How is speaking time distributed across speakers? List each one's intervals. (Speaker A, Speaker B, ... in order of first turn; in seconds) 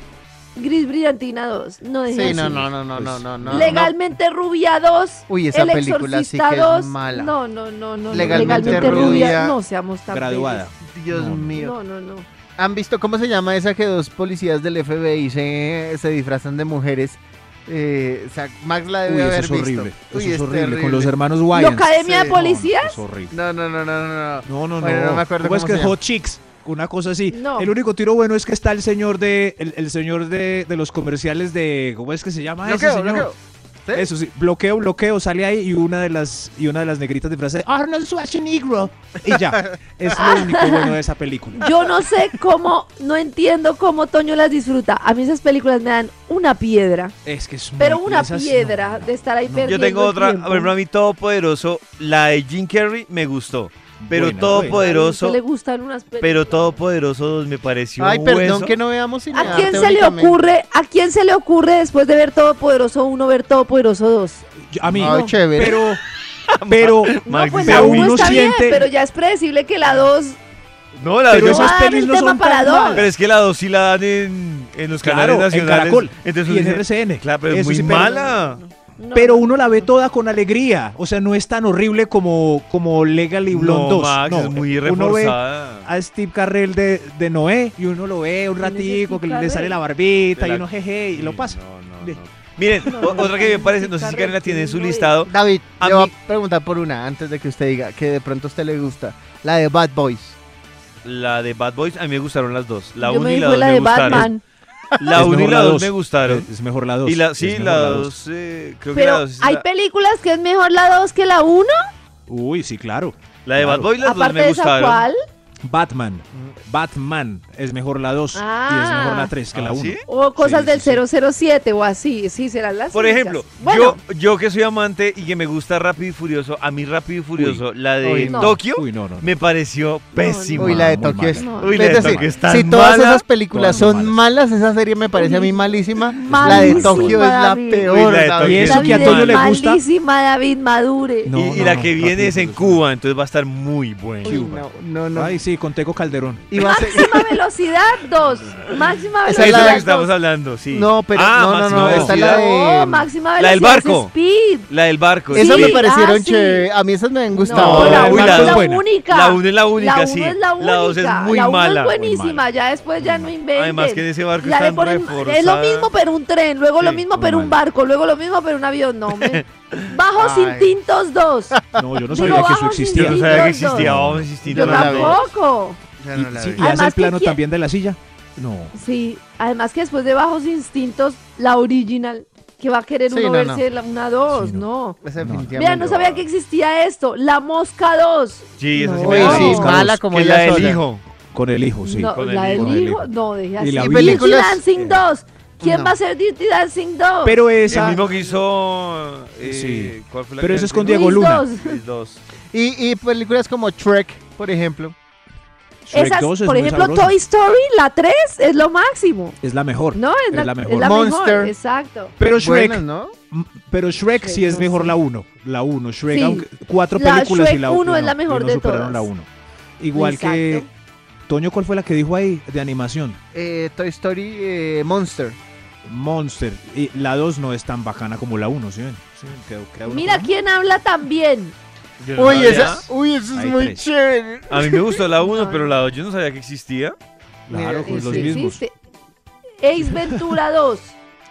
Speaker A: 0.6-2.7, 3.5-10.7, 11.6-12.3, 21.5-23.0, 27.3-27.7, 40.2-41.0, 41.5-47.1, 47.8-50.7, 54.6-56.8, 59.3-64.5, 65.0-65.4, 67.3-70.4, 71.4-73.1, 77.9-79.9, 88.6-89.8, 92.9-95.2, 103.0-104.4, 108.9-111.8, 114.0-115.2, 118.3-119.3, 120.1-124.0, 128.3-128.6, 130.1-130.7, 131.3-132.0, 135.1-135.6, 136.2-137.9, 138.6-141.3, 146.6-150.1, 152.1-154.7, 155.3-156.7, 157.4-171.6, 172.1-173.9, 174.4-175.8, 176.6-177.4, 178.7-185.0, 185.5-189.8, 191.8-198.0, 200.8-201.8, 205.9-209.4, 209.9-212.2, 214.2-214.9, 216.1-219.1, 219.9-220.7, 229.8-231.6, 235.2-235.8, 237.8-238.7, 239.6-241.0
Speaker B: 2.1-3.9, 5.3-7.4, 8.1-9.6, 10.8-11.8, 12.6-21.1, 22.0-22.4, 23.3-26.0, 32.6-34.1, 58.0-60.4, 64.9-65.8, 95.3-100.4, 128.0-128.6, 130.6-138.7, 144.3-145.4, 146.5-147.3, 149.2-149.9, 150.7-153.1, 155.3-158.6, 170.2-170.8, 171.5-172.4, 174.4-175.3, 176.0-176.7, 183.1-183.6, 185.0-186.2, 189.0-190.8, 193.8-194.6, 195.6-196.0, 202.5-205.0, 210.8-211.5, 212.3-213.1, 223.3-225.4, 232.2-235.0, 237.5-238.3
Speaker C: 2.2-3.9, 8.1-9.4, 10.1-11.6, 19.1-23.4, 24.5-33.3, 33.9-41.6, 47.2-49.9, 54.0-54.9, 64.7-66.0, 66.7-68.9, 71.3-73.1, 75.0-78.4, 79.1-92.2, 105.1-108.1, 112.3-113.9, 115.7-121.0, 127.4-127.6, 128.7-129.3, 130.6-132.3, 133.5-134.2, 136.3-137.2, 138.4-139.8, 141.3-142.8, 144.2-146.6, 151.7-152.2, 157.6-158.9, 162.0-162.4, 163.0-163.3, 167.1-167.6, 171.8-174.3, 176.1-178.7, 184.3-184.7, 185.2-185.5, 189.2-189.9, 191.3-195.1, 197.2-198.1, 199.4-201.5, 205.9-207.2, 209.4-211.0, 212.2-219.3, 219.8-220.7, 221.3-223.2, 225.9-230.3, 233.3-233.9, 237.5-238.6, 240.0-240.3
Speaker D: 49.6-55.4, 56.2-58.8, 66.5-68.5, 71.0-71.8, 72.9-78.6, 83.5-85.9, 90.4-96.1, 101.0-104.3, 105.0-106.5, 107.0-109.6, 113.5-115.1, 119.5-120.0, 122.9-130.9, 131.6-133.3, 137.8-139.5, 141.3-144.4, 149.4-152.4, 153.4-154.1, 154.7-155.8, 157.5-162.0, 163.5-165.9, 166.8-167.0, 169.2-169.8, 172.2-175.2, 188.6-191.1, 192.1-192.8, 197.7-202.2, 232.0-232.9, 234.5-237.0